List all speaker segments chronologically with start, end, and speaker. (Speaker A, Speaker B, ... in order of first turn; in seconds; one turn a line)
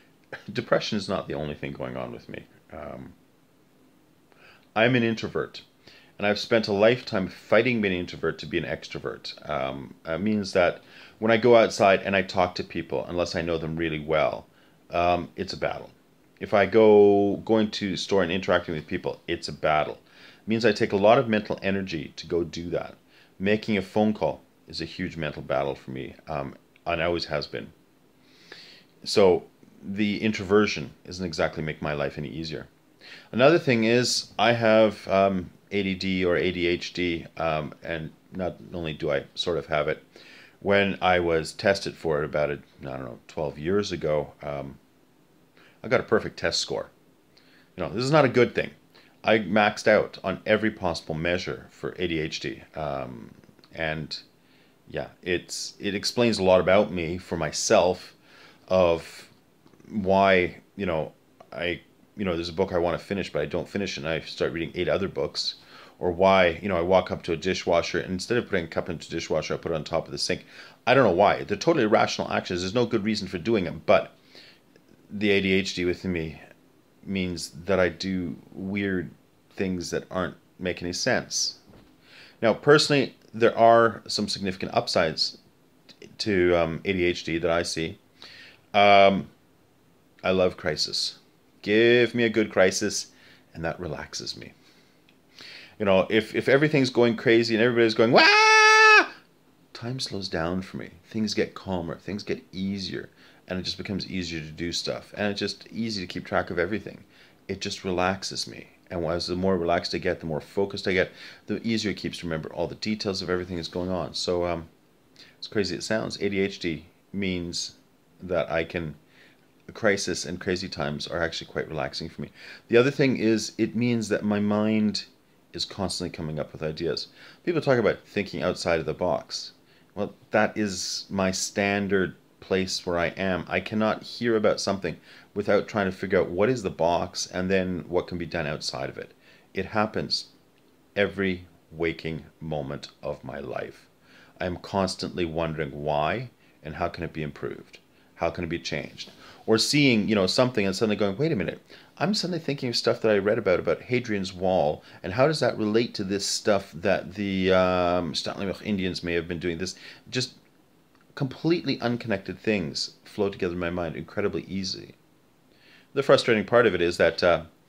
Speaker A: 0.5-3.1
Speaker A: 4.7-5.6
Speaker A: 6.2-27.7
Speaker A: 29.0-32.7
Speaker A: 33.3-40.0
Speaker A: 40.6-44.8
Speaker A: 45.8-46.9
Speaker A: 47.8-54.2
Speaker A: 54.9-58.1
Speaker A: 58.7-59.3
Speaker A: 59.9-74.2
Speaker A: 75.1-76.4
Speaker A: 77.0-81.6
Speaker A: 82.4-85.4
Speaker A: 86.2-88.0
Speaker A: 88.7-89.3
Speaker A: 90.2-94.5
Speaker A: 95.8-99.1
Speaker A: 99.7-114.7
Speaker A: 115.4-119.0
Speaker A: 119.7-140.3
Speaker A: 140.9-160.4
Speaker A: 161.1-165.0
Speaker A: 165.9-167.4